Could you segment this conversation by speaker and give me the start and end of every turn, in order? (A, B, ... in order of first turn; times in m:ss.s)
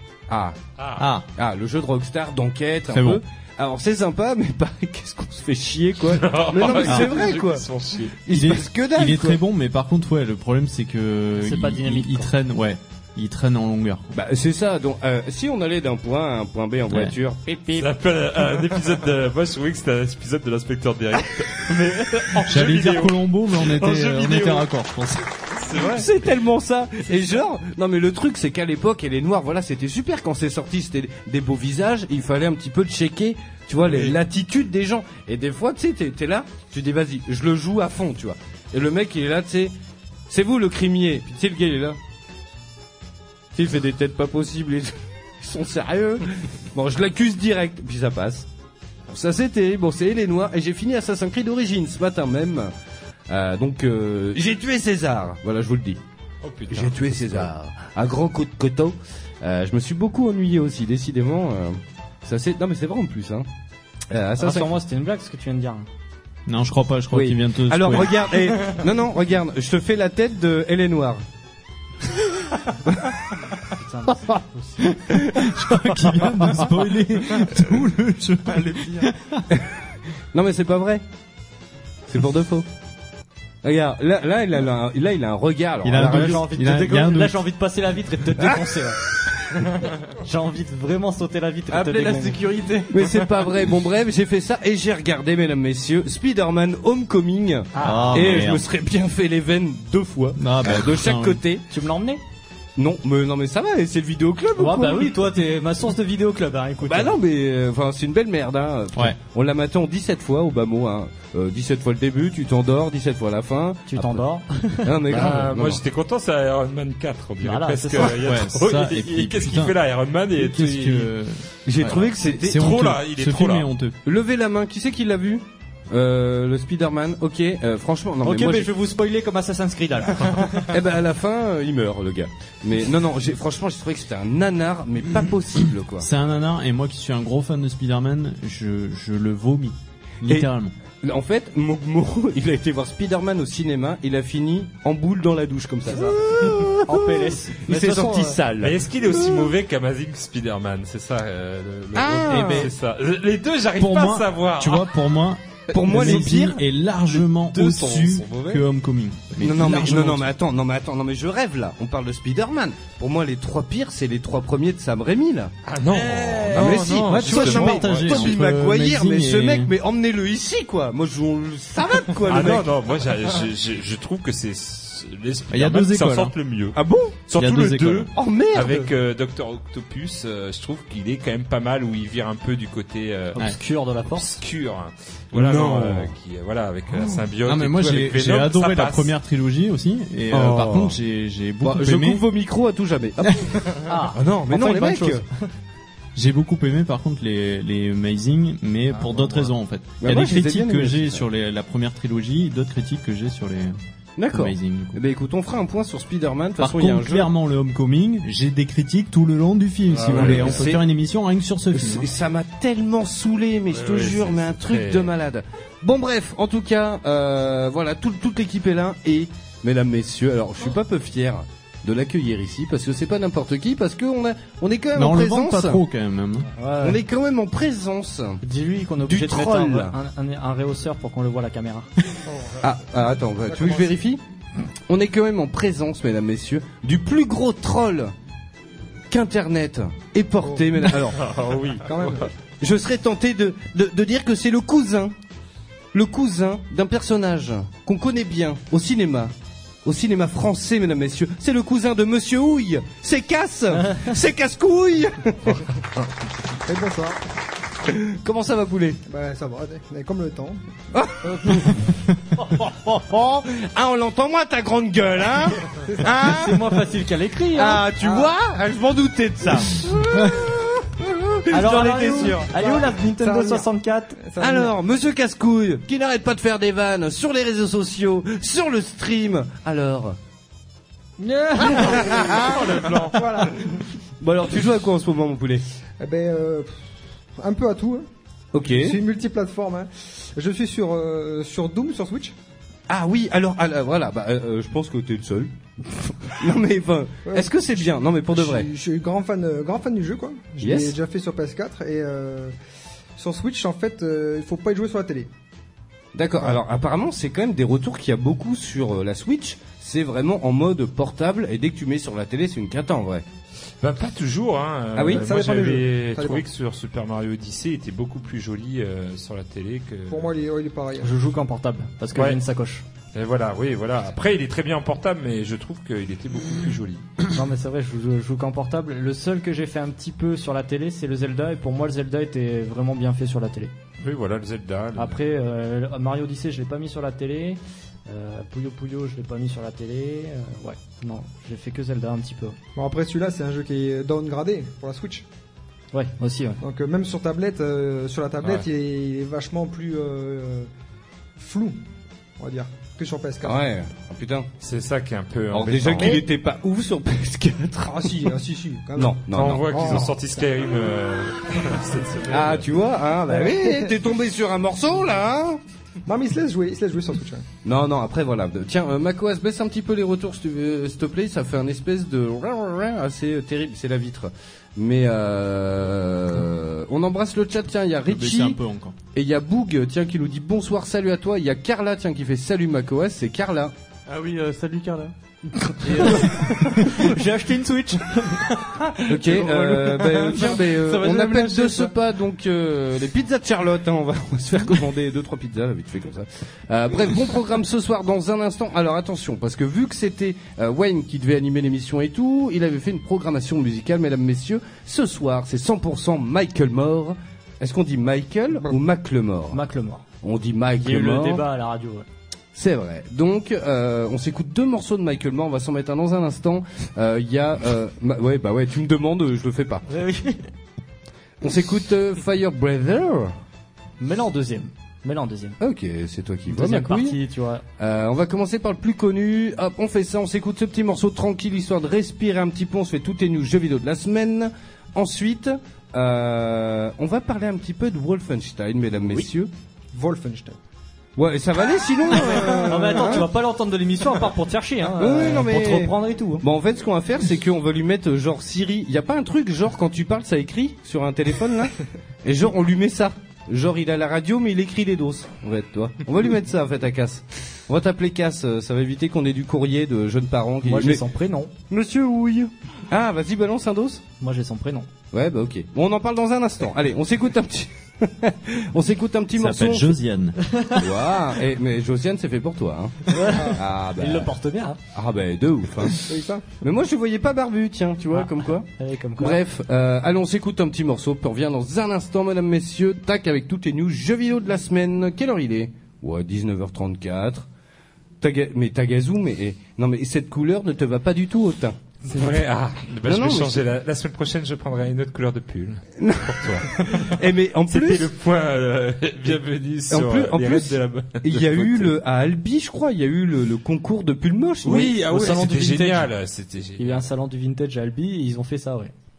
0:00.3-0:00.6 A
0:00.8-0:01.1 B
0:01.0-0:01.2 C
0:01.4-0:07.6 A
0:02.9-0:03.2 C
0:06.0-0:08.2 B
0:06.8-0:07.2 C
0:08.2-0:09.4 A
0:08.3-0:14.0 C
0:11.4-0:12.3 D
0:14.1-0:17.6 A
0:17.7-0:24.7 B
0:22.4-0:25.2 C
0:25.5-0:26.1 B
0:25.7-0:39.7 A
0:33.8-0:34.2 B
0:40.3-0:42.0 A
0:43.5-0:48.5 A
0:49.1-0:52.7 A
0:53.3-0:56.0 A
0:56.4-0:57.5 B
0:56.7-1:03.5 A
1:04.1-1:04.8 A
1:04.4-1:05.9 D
1:06.5-1:08.3 C
1:07.1-1:11.2 A
1:13.7-1:14.8 D
1:15.1-1:16.6 A
1:15.3-1:19.4 C
1:18.5-1:19.1 E
1:20.3-1:21.0 A
1:22.1-1:22.7 A
1:23.6-1:26.4 A
1:25.8-1:27.4 C
1:26.0-1:29.0 D
1:30.1-1:32.4 D
1:31.7-1:33.4 E
1:32.9-1:41.6 A
1:37.7-1:38.4 D
1:37.8-1:38.6 C
1:40.4-1:41.4 C
1:41.7-1:42.2 D
1:42.8-1:45.1 A
1:44.6-1:47.2 D
1:46.8-1:54.2 A
1:53.9-1:55.0 D
1:54.8-1:55.8 A
1:55.1-2:01.1 B
1:57.4-1:58.2 D
1:58.2-1:59.8 C
2:00.3-2:03.9 C
2:01.6-2:02.8 A
2:01.8-2:03.7 B
2:04.0-2:08.7 A
2:08.2-2:10.7 D
2:10.7-2:16.1 A
2:16.0-2:20.7 C
2:21.0-2:29.5 A
2:25.9-2:26.2 D
2:26.8-2:28.4 D
2:28.6-2:34.9 B
2:31.9-2:32.7 A
2:32.4-2:32.6 C
2:33.8-2:40.3 C
2:35.7-2:37.2 A
2:37.4-2:38.6 B
2:39.4-2:52.7 A
2:45.6-2:48.4 B
2:46.5-2:49.7 C
2:52.2-3:03.4 B
2:55.5-2:56.3 C
2:56.7-2:57.2 A
2:57.4-2:58.1 C
2:58.1-2:58.9 A
3:03.3-3:04.4 D
3:04.1-3:09.1 B
3:05.3-3:06.1 A
3:07.4-3:12.2 C
3:10.3-3:11.0 A
3:11.6-3:15.2 A
3:13.2-3:13.5 C
3:13.8-3:15.5 D
3:16.1-3:23.8 C
3:19.0-3:19.5 B
3:20.0-3:21.2 A
3:24.2-3:27.3 A
3:24.3-3:25.0 C
3:26.6-3:32.1 C
3:29.9-3:30.7 B
3:30.1-3:30.8 A
3:31.7-3:45.8 A
3:33.7-3:35.1 B
3:45.0-3:46.5 C
3:46.5-3:47.0 D
3:46.8-3:48.4 A
3:48.4-3:51.9 D
3:49.0-3:49.9 A
3:52.6-3:54.2 A
3:54.9-3:58.1 A
3:59.1-4:01.2 A
4:01.1-4:02.3 B
4:01.8-4:02.3 F
4:02.6-4:05.1 A
4:05.9-4:09.3 A
4:09.8-4:15.7 A
4:16.6-4:17.2 F
4:17.8-4:19.0 A
4:19.1-4:20.6 F
4:20.9-4:21.9 A
4:21.3-4:21.7 D
4:22.4-4:26.8 A
4:26.2-4:27.9 D
4:27.5-4:32.5 A
4:31.5-4:34.2 D
4:32.5-4:33.7 F
4:34.2-4:34.7 F
4:34.4-4:40.2 A
4:41.2-4:42.0 D
4:41.6-4:43.1 A
4:41.6-4:42.4 F
4:41.9-4:43.2 B
4:43.1-4:43.8 F
4:44.2-4:45.6 A
4:46.0-4:46.7 F
4:47.4-4:48.0 F
4:48.5-4:49.0 A
4:48.6-4:52.3 F
4:52.9-4:58.7 A
4:57.2-5:02.5 F
5:00.6-5:01.0 A
5:03.2-5:05.3 F
5:06.1-5:13.2 A
5:13.8-5:20.3 B
5:14.9-5:15.2 A
5:15.1-5:16.4 F
5:20.1-5:21.1 F
5:21.0-5:22.8 D
5:22.1-5:22.4 B
5:23.1-5:27.0 B
5:27.3-5:33.7 D
5:34.0-5:35.2 B
5:35.0-5:42.6 D
5:42.8-5:45.2 F
5:45.9-5:46.6 D
5:46.6-5:50.7 F
5:48.4-5:48.7 B
5:51.4-5:51.8 F
5:52.4-5:53.6 F
5:53.4-5:54.5 A
5:54.6-5:56.2 B
5:55.5-5:58.3 A
5:57.8-6:00.2 F
5:59.0-6:00.1 A
5:59.2-6:02.7 B
6:02.3-6:05.6 A
6:03.3-6:03.9 F
6:06.0-6:07.4 F
6:07.6-6:18.6 A
6:18.1-6:18.9 C
6:19.1-6:23.7 A
6:24.1-6:25.1 E
6:25.8-6:27.1 E
6:26.0-6:28.5 D
6:28.5-6:31.9 E
6:29.1-6:49.6 A
6:49.5-6:50.0 D
6:50.2-6:51.4 A
6:50.8-6:52.0 D
6:52.5-6:59.8 A
6:59.9-7:00.5 D
7:01.4-7:03.3 A
7:04.0-7:05.6 D
7:05.6-7:07.2 A
7:06.5-7:07.6 D
7:07.8-7:19.5 A
7:19.9-7:20.6 F
7:21.2-7:23.3 A
7:22.1-7:26.4 D
7:25.0-7:41.0 A
7:40.6-7:41.5 D
7:41.7-7:44.0 A
7:44.2-7:44.9 D
7:45.1-7:50.0 A
7:49.4-7:50.4 C
7:50.4-7:50.8 D
7:50.7-7:54.3 A
7:53.1-7:54.8 D
7:54.9-8:07.5 A
7:56.0-7:56.4 F
7:58.1-7:59.4 D
8:08.2-8:11.8 A
8:12.0-8:22.0 B
8:13.0-8:13.7 A
8:16.0-8:18.1 A
8:19.9-8:25.0 A
8:24.6-8:27.1 B
8:25.0-8:26.1 D
8:26.8-8:28.9 D